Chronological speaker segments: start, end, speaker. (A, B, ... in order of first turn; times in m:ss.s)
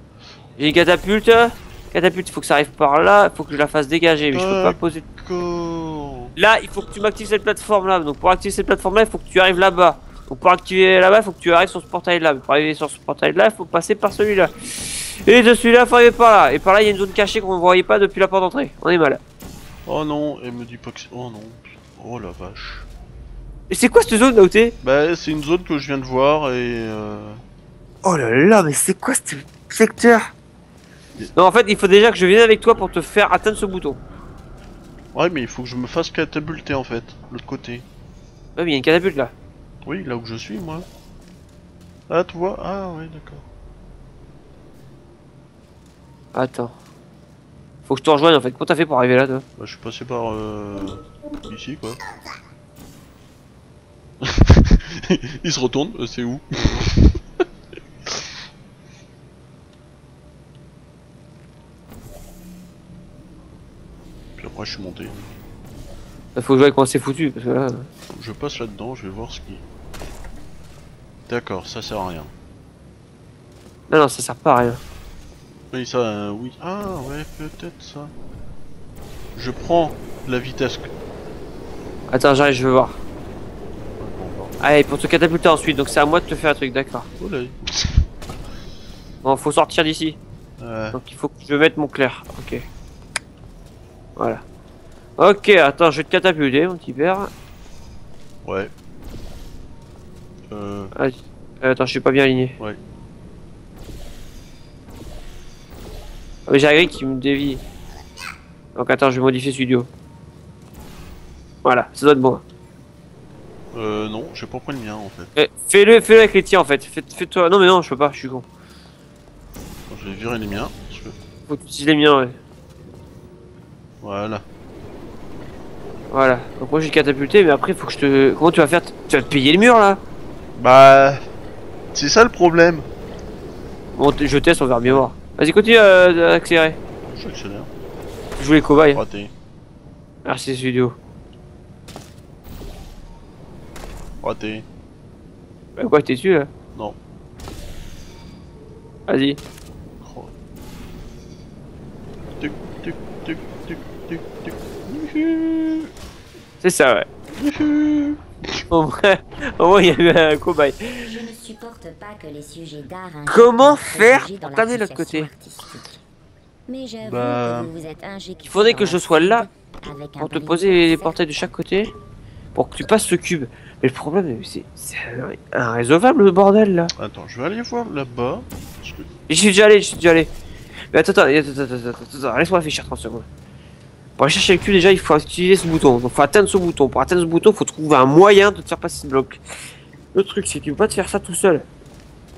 0:00.6-0:05.0 A
0:04.3-0:06.3 B
0:06.4-0:19.2 A
0:19.8-0:22.9 B
0:23.7-0:24.8 A
0:24.8-0:27.4 B
0:28.0-0:30.3 A
0:31.3-0:34.0 A
0:35.1-0:37.8 B
0:38.6-0:39.3 A
0:39.8-0:40.9 B
0:42.1-0:43.4 B
0:46.3-0:46.7 A
0:47.9-0:49.4 A
0:49.6-0:52.0 B
0:54.2-0:57.4 B
1:04.4-1:05.4 B
1:06.4-1:07.9 A
1:08.1-1:09.6 B
1:11.3-1:12.3 B
1:13.9-1:14.8 A
1:15.7-1:18.1 B
1:19.3-1:20.9 B
1:22.1-1:23.0 A
1:23.8-1:24.6 B
1:24.6-1:27.1 A
1:27.2-1:28.0 B
1:29.2-1:30.2 A
1:30.6-1:31.0 B
1:30.9-1:32.6 A
1:34.2-1:34.4 A
1:35.2-1:37.3 A
1:38.4-1:38.7 B
1:40.5-1:40.9 B
1:40.9-1:42.6 A
1:46.5-1:47.6 A
1:48.7-1:49.9 A
1:51.6-1:52.4 A
1:53.7-1:55.3 B
1:55.4-1:58.4 A
1:59.9-2:01.1 B
2:01.5-2:02.4 A
2:04.0-2:04.4 B
2:06.1-2:10.0 A
2:10.6-2:11.2 B
2:11.9-2:12.8 B
2:14.0-2:16.8 A
2:17.0-2:17.7 B
2:18.4-2:19.0 A
2:18.9-2:19.3 B
2:20.2-2:21.0 A
2:24.2-2:24.6 B
2:25.8-2:26.5 A
2:29.1-2:29.4 A
2:30.0-2:30.3 B
2:32.3-2:35.9 B
2:36.6-2:37.1 A
2:37.3-2:38.6 B
2:38.7-2:41.1 A
2:40.9-2:46.0 C
2:43.3-2:45.3 A
2:46.7-2:51.5 C
2:47.0-2:47.7 B
2:48.4-2:49.4 A
2:50.2-2:51.9 A
2:52.5-2:56.9 A
2:57.0-2:59.1 B
2:59.3-3:00.3 A
3:00.9-3:03.2 A
3:04.2-3:09.4 A
3:10.1-3:11.6 A